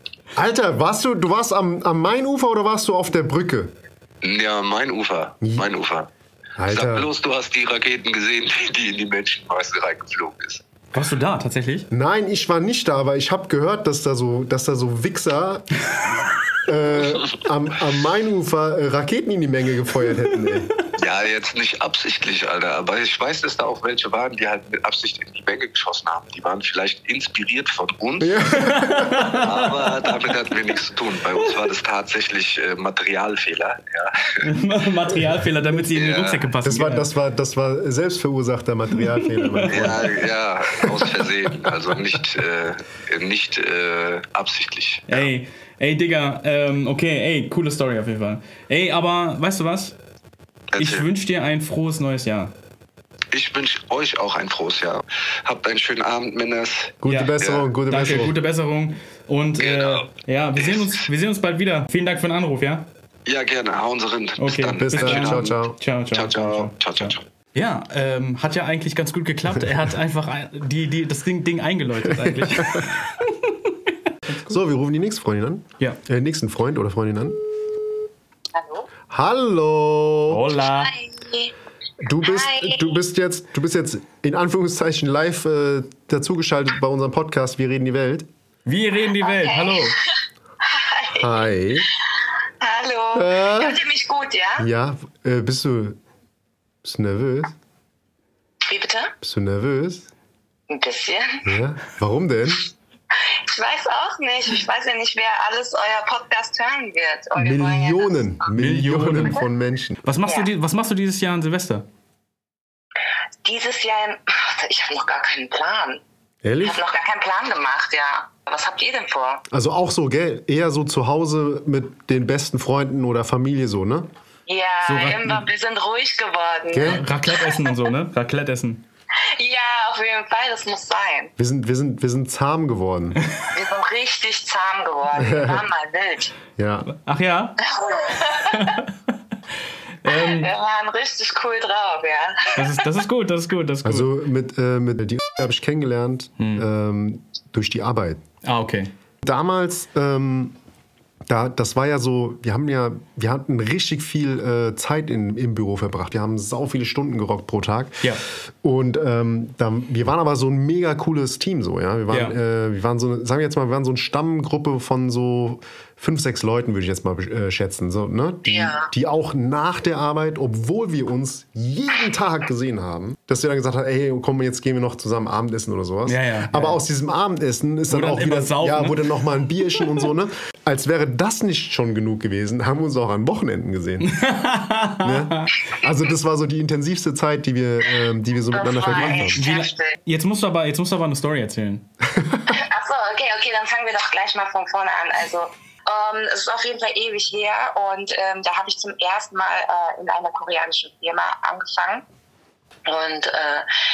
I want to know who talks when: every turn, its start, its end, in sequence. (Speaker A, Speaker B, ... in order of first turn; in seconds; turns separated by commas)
Speaker A: 0.3-3.7, Speaker B: 4.2-6.1, Speaker A: 5.4-5.7, Speaker A: 6.6-7.1, Speaker B: 6.7-10.6, Speaker C: 10.9-11.9, Speaker A: 11.9-15.7, Speaker A: 16.6-20.7, Speaker B: 21.0-28.6, Speaker A: 28.2-29.3, Speaker C: 28.5-29.9, Speaker B: 29.4-34.4, Speaker C: 34.4-37.1, Speaker B: 35.9-36.5, Speaker A: 36.6-40.1, Speaker C: 39.2-39.9, Speaker B: 39.7-45.3, Speaker A: 40.9-41.3, Speaker C: 45.1-50.0, Speaker B: 50.7-51.0, Speaker C: 50.8-52.5, Speaker B: 53.3-57.7, Speaker A: 57.0-58.3, Speaker C: 57.1-57.3, Speaker C: 57.9-62.9, Speaker B: 59.6-61.0, Speaker B: 63.2-67.2, Speaker C: 64.4-74.6, Speaker A: 64.7-65.8, Speaker A: 72.1-72.9, Speaker A: 74.5-77.4, Speaker D: 78.5-78.9, Speaker A: 79.1-80.5, Speaker C: 80.3-80.9, Speaker D: 80.6-81.5, Speaker A: 82.0-88.3, Speaker D: 82.2-82.8, Speaker C: 88.7-90.0, Speaker D: 89.2-90.0, Speaker D: 90.6-91.5, Speaker A: 91.2-91.9, Speaker D: 92.2-94.7, Speaker A: 93.1-93.8, Speaker A: 94.6-96.0, Speaker A: 96.8-97.5, Speaker D: 98.7-99.1, Speaker A: 99.2-100.1, Speaker D: 100.7-101.5, Speaker A: 101.4-102.7, Speaker D: 103.4-108.2, Speaker A: 107.3-110.0, Speaker C: 108.5-109.4, Speaker C: 110.0-111.9, Speaker D: 113.4-116.0, Speaker A: 116.4-116.8, Speaker D: 116.6-119.4, Speaker A: 119.5-124.1, Speaker D: 124.5-127.8, Speaker C: 124.8-125.5, Speaker A: 126.7-127.0, Speaker C: 126.8-128.8, Speaker D: 129.3-131.3, Speaker A: 131.4-133.2, Speaker D: 133.5-136.3, Speaker A: 135.1-135.7, Speaker A: 136.6-136.9, Speaker C: 136.8-137.6, Speaker D: 137.6-138.8, Speaker C: 138.5-138.9, Speaker C: 140.0-140.5, Speaker D: 140.1-142.9, Speaker C: 142.6-144.1, Speaker A: 143.8-148.2, Speaker C: 146.4-146.7, Speaker C: 148.4-148.9, Speaker A: 149.2-150.6, Speaker A: 151.3-184.1, Speaker C: 162.1-162.4, Speaker D: 168.5-168.9, Speaker C: 176.1-176.8, Speaker C: 177.9-179.1, Speaker C: 184.0-185.6, Speaker A: 185.0-189.4, Speaker D: 188.5-189.9, Speaker C: 189.0-191.9, Speaker A: 192.1-192.5, Speaker D: 192.5-202.0, Speaker D: 202.8-203.7